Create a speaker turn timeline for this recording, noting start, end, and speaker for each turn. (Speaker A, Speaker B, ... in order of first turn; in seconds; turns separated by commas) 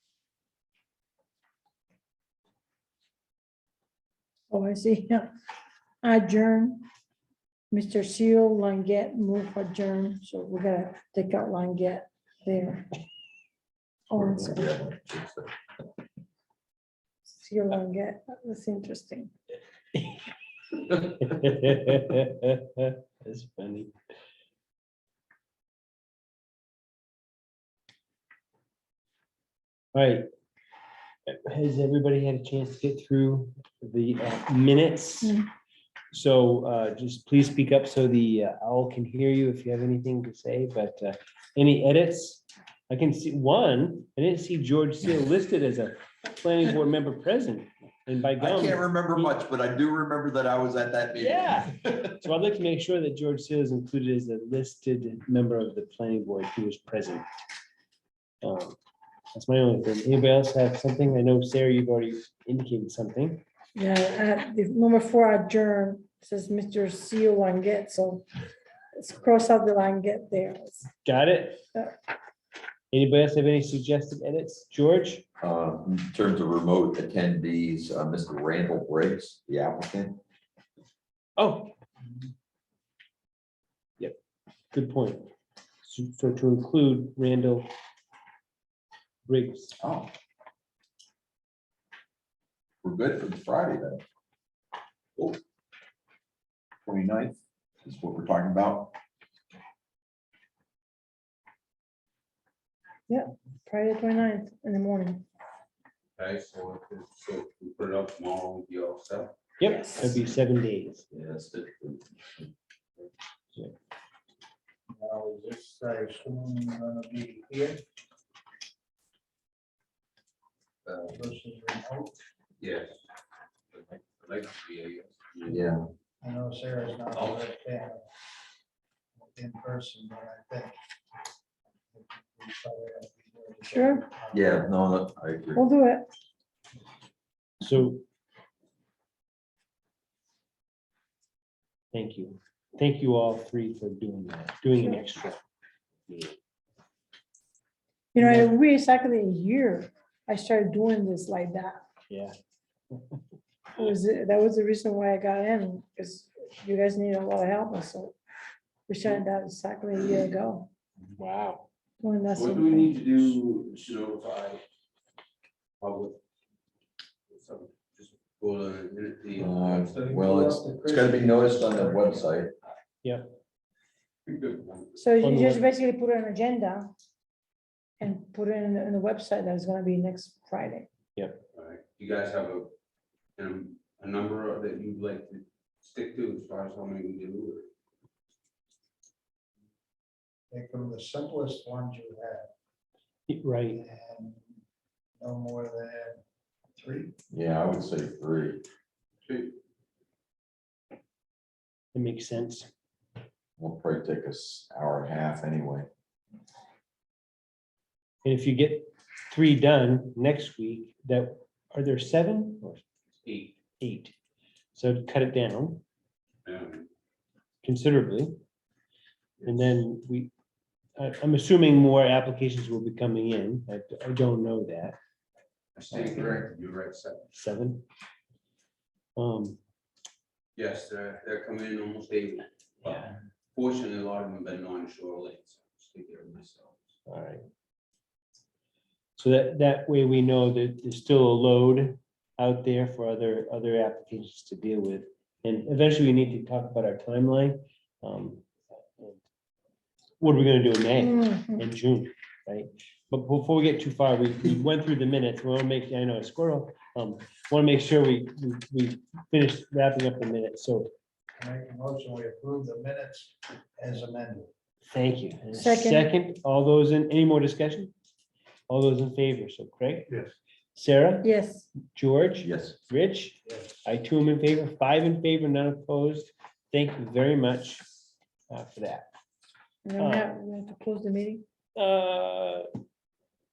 Speaker A: 4.5-5.3, Speaker A: 6.0-6.8, Speaker A: 7.7-13.0, Speaker A: 14.1-14.7, Speaker B: 14.1-15.5, Speaker A: 17.3-19.3, Speaker C: 20.9-23.9, Speaker C: 29.9-30.2, Speaker C: 31.3-35.4, Speaker C: 36.1-49.3, Speaker B: 48.4-52.3, Speaker C: 51.2-51.7, Speaker C: 52.2-57.2, Speaker C: 58.4-58.8, Speaker C: 59.3-63.4, Speaker A: 63.8-68.3, Speaker A: 69.0-70.9, Speaker C: 71.0-71.6, Speaker C: 72.9-75.2, Speaker B: 75.4-80.2, Speaker C: 81.4-81.7, Speaker C: 84.7-85.3, Speaker C: 85.8-87.7, Speaker C: 89.3-89.8, Speaker B: 89.8-90.1, Speaker B: 92.8-94.0, Speaker B: 96.8-99.0, Speaker A: 103.1-105.2, Speaker D: 106.2-109.4, Speaker C: 109.6-111.1, Speaker A: 109.6-110.2, Speaker B: 111.1-112.5, Speaker E: 114.9-117.8, Speaker E: 120.8-122.2, Speaker D: 122.6-123.0, Speaker D: 123.7-125.7, Speaker B: 125.5-125.9, Speaker E: 126.2-128.1, Speaker D: 127.1-127.4, Speaker E: 129.2-130.8, Speaker E: 131.9-134.7, Speaker A: 133.7-134.1, Speaker B: 134.3-135.6, Speaker A: 135.6-136.1, Speaker C: 137.6-138.0, Speaker C: 141.9-145.4, Speaker C: 146.1-146.4, Speaker A: 148.1-151.8, Speaker C: 148.2-148.5, Speaker C: 152.1-152.3, Speaker A: 153.7-158.2, Speaker A: 158.9-160.7, Speaker C: 161.2-161.7, Speaker A: 162.0-163.1, Speaker D: 162.3-164.6, Speaker D: 165.8-166.2, Speaker D: 167.3-170.2, Speaker B: 169.4-172.5, Speaker E: 170.0-172.2, Speaker C: 173.0-173.4, Speaker D: 174.3-175.0, Speaker A: 175.0-176.9, Speaker C: 175.2-175.6, Speaker A: 178.0-180.9, Speaker C: 181.2-181.4, Speaker D: 181.5-182.7, Speaker D: 183.4-187.7, Speaker E: 190.5-192.5, Speaker C: 193.3-193.8, Speaker E: 193.7-194.5, Speaker E: 195.2-196.2, Speaker E: 196.8-197.1, Speaker B: 197.3-198.6, Speaker D: 199.2-199.6, Speaker C: 201.9-202.7, Speaker B: 203.6-205.9, Speaker C: 208.2-212.8, Speaker D: 213.2-213.6, Speaker C: 213.8-214.1, Speaker C: 214.8-215.8, Speaker D: 216.4-216.9, Speaker C: 217.6-218.4, Speaker C: 219.4-220.3, Speaker C: 221.0-225.0, Speaker D: 225.8-227.3, Speaker B: 225.9-226.5, Speaker C: 227.3-227.8, Speaker C: 229.2-229.6, Speaker D: 230.6-236.8, Speaker C: 232.8-233.1, Speaker C: 237.1-237.4, Speaker C: 239.2-249.2, Speaker C: 250.2-260.9, Speaker A: 251.0-251.6, Speaker E: 261.4-264.5, Speaker C: 264.9-267.9, Speaker A: 265.5-266.1, Speaker C: 268.7-270.2, Speaker C: 270.8-271.3, Speaker A: 271.2-271.7, Speaker C: 271.9-277.9, Speaker B: 272.4-272.8, Speaker C: 278.5-279.1, Speaker A: 279.9-281.4, Speaker C: 280.0-280.3, Speaker C: 281.8-282.7